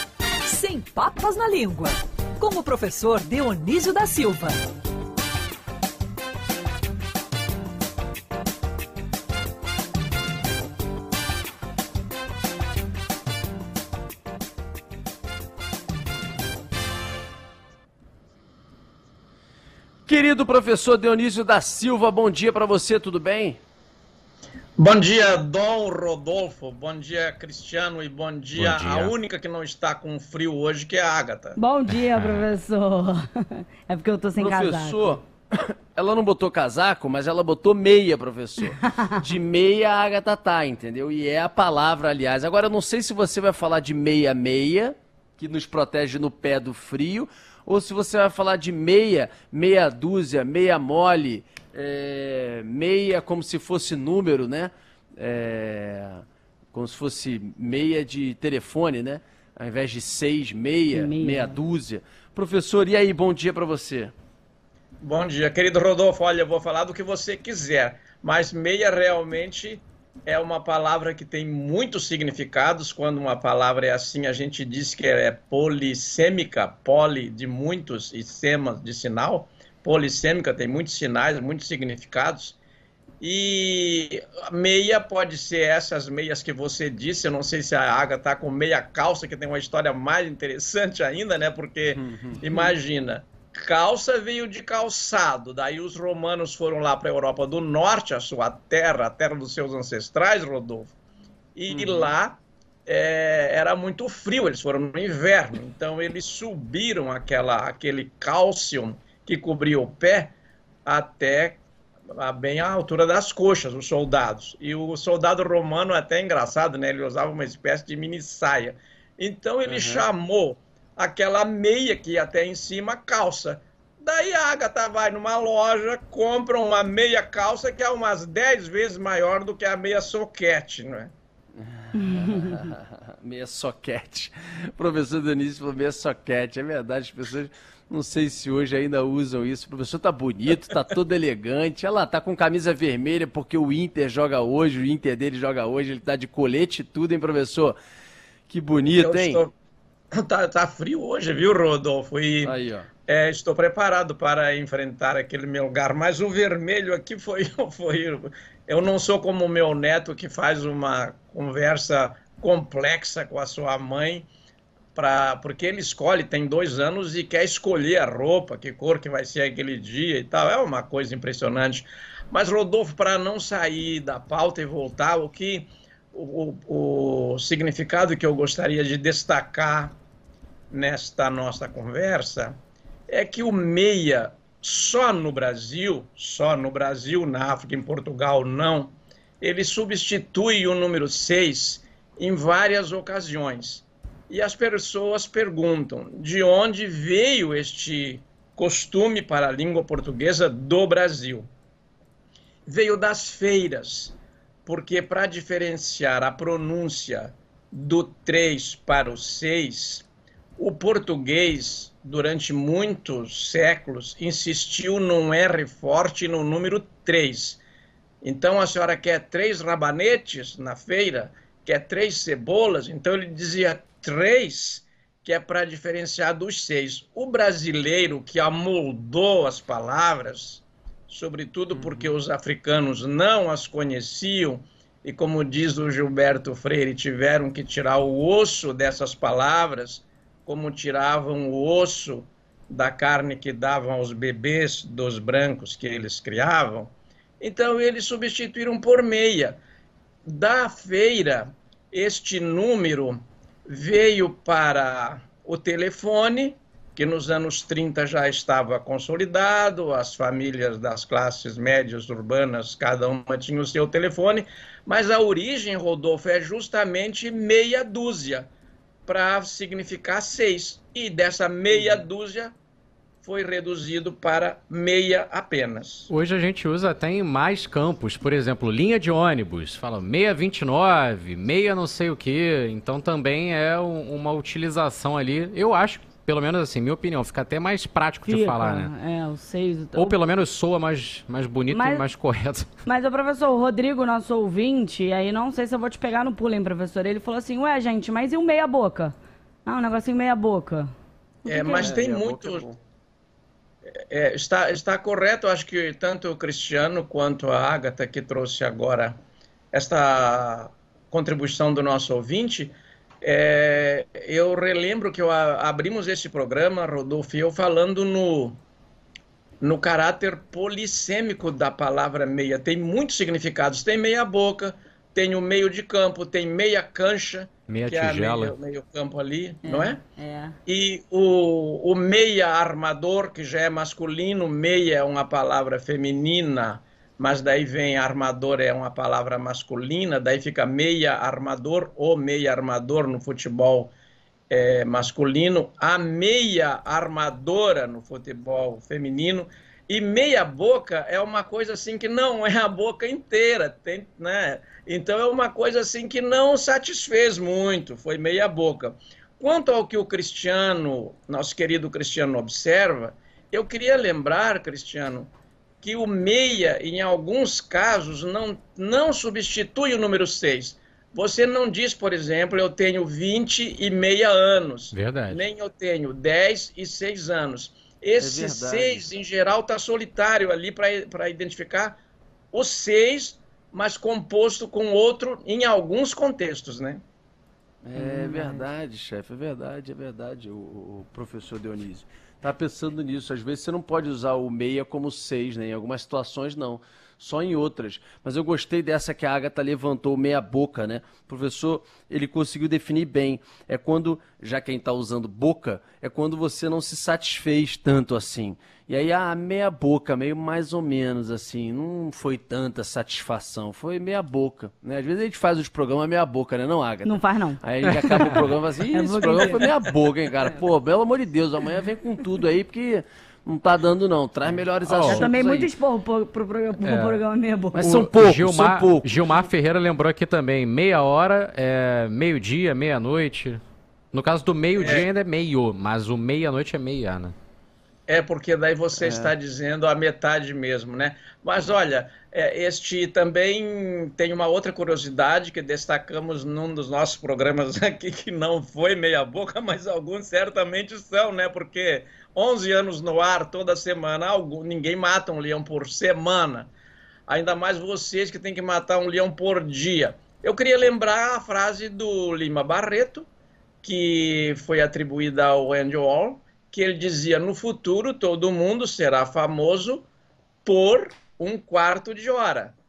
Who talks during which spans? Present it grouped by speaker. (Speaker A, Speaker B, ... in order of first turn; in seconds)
Speaker A: 0.5-4.6
Speaker B: 20.1-23.6, 34.4-64.1, 91.9-92.5, 101.7-102.2, 119.7-120.1, 131.6-147.8, 148.5-149.4, 152.4-152.9, 231.7-232.2, 271.7-272.0, 301.7-302.8, 378.2-379.1, 387.8-425.7, 427.7-429.2, 439.0-439.3
Speaker C: 24.8-31.6, 65.0-82.6, 83.2-100.9, 101.5-110.3, 110.9-131.1, 149.0-149.5, 150.1-152.6, 153.1-164.3, 164.9-180.0, 180.7-182.6, 183.1-201.5, 202.7-217.6, 218.2-249.6, 250.3-268.5, 269.1-272.5, 273.2-276.1, 301.5-302.7, 303.9-309.2, 309.7-318.6, 319.6-330.0, 330.6-343.9, 344.5-365.3, 365.8-382.0, 382.5-387.0, 434.8-435.1, 438.1-456.7, 457.3-463.3, 463.8-470.1, 470.7-472.8
Speaker D: 28.6-29.1, 31.9-32.4, 276.1-288.9, 290.0-292.7, 327.7-328.5, 374.9-375.4, 417.9-418.5, 424.9-425.3, 426.8-427.2, 427.8-433.6, 434.1-437.4
Speaker E: 31.6-35.2, 60.9-61.6, 131.9-132.7, 288.2-290.2, 291.7-292.1, 292.9-299.1, 299.6-300.9, 301.5-301.9, 329.6-330.6, 387.9-388.7, 417.0-419.7, 425.0-427.9